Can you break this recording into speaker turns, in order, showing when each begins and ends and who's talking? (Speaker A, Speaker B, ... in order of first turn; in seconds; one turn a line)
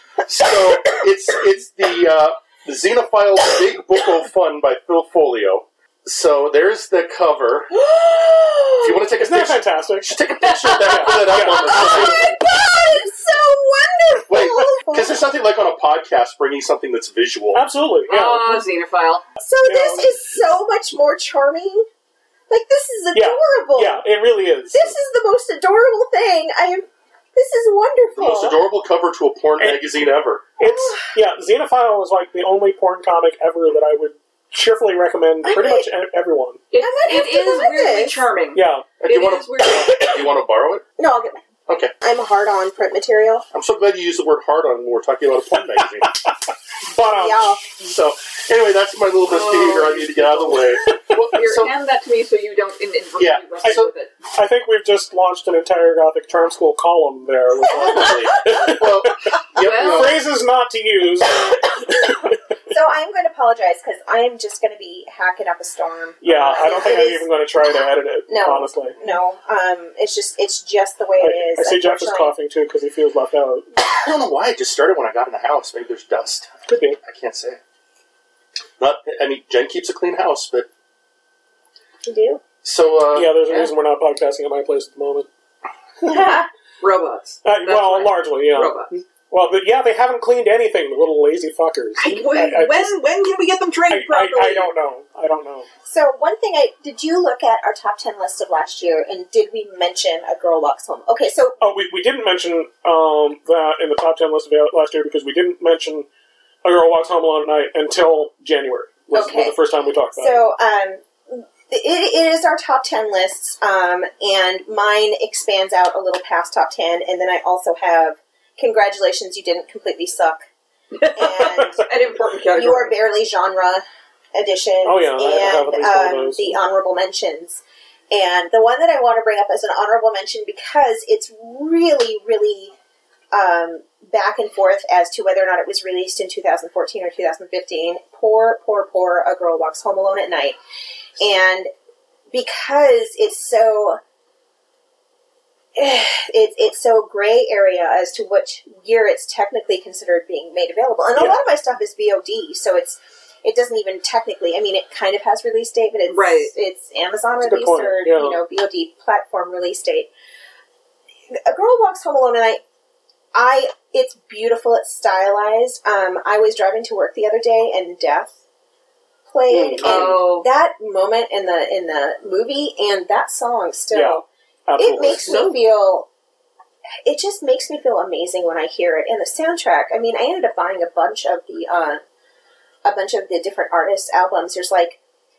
Speaker A: 0.2-7.7
Speaker B: 8.0-8.8
Speaker A: 8.8-12.4
Speaker C: 9.2-10.2
Speaker C: 10.8-12.3
Speaker B: 11.7-15.2
Speaker A: 14.3-17.6
Speaker C: 17.5-18.6
Speaker D: 18.1-19.3
Speaker B: 19.4-21.9
Speaker C: 19.6-20.5
Speaker B: 22.5-24.0
Speaker C: 23.1-25.0
Speaker B: 24.7-28.5
Speaker A: 28.1-30.5
Speaker C: 30.6-36.6
Speaker B: 30.6-31.0
Speaker B: 35.4-35.9
Speaker D: 36.7-40.2
Speaker B: 36.8-38.1
Speaker C: 38.5-38.9
Speaker A: 39.0-40.9
Speaker B: 41.0-41.4
Speaker A: 41.7-41.9
Speaker B: 42.0-43.5
Speaker A: 43.5-46.2
Speaker C: 46.9-47.5
Speaker B: 47.0-47.7
Speaker A: 47.8-51.7
Speaker D: 49.3-50.6
Speaker D: 51.3-54.1
Speaker A: 53.2-53.9
Speaker C: 54.3-62.4
Speaker A: 57.7-60.2
Speaker D: 59.6-60.2
Speaker B: 62.7-67.3
Speaker C: 66.2-69.0
Speaker B: 68.3-72.3
Speaker C: 71.2-73.8
Speaker A: 73.8-77.6
Speaker C: 76.7-77.0
Speaker A: 78.8-80.7
Speaker B: 82.0-82.4
Speaker A: 82.6-83.7
Speaker C: 83.1-85.3
Speaker B: 86.0-86.5
Speaker D: 86.8-88.9
Speaker C: 87.4-93.0
Speaker D: 92.0-94.7
Speaker C: 93.9-95.7
Speaker B: 95.9-101.6
Speaker C: 101.6-106.1
Speaker C: 106.6-110.5
Speaker B: 109.1-109.6
Speaker B: 110.2-120.4
Speaker D: 121.0-123.0
Speaker B: 121.1-121.9
Speaker C: 121.4-121.8
Speaker B: 122.5-132.7
Speaker C: 124.8-126.6
Speaker B: 133.3-140.6
Speaker B: 141.2-141.7
Speaker B: 142.3-144.0
Speaker B: 145.8-160.1
Speaker C: 151.1-151.4
Speaker D: 156.1-156.5
Speaker C: 157.4-158.4
Speaker B: 161.3-162.6
Speaker B: 163.3-168.4
Speaker B: 169.3-174.2
Speaker C: 169.5-170.2
Speaker D: 169.8-170.5
Speaker C: 173.9-175.4
Speaker B: 174.8-176.1
Speaker D: 175.2-175.6
Speaker B: 177.1-182.0
Speaker B: 182.8-185.0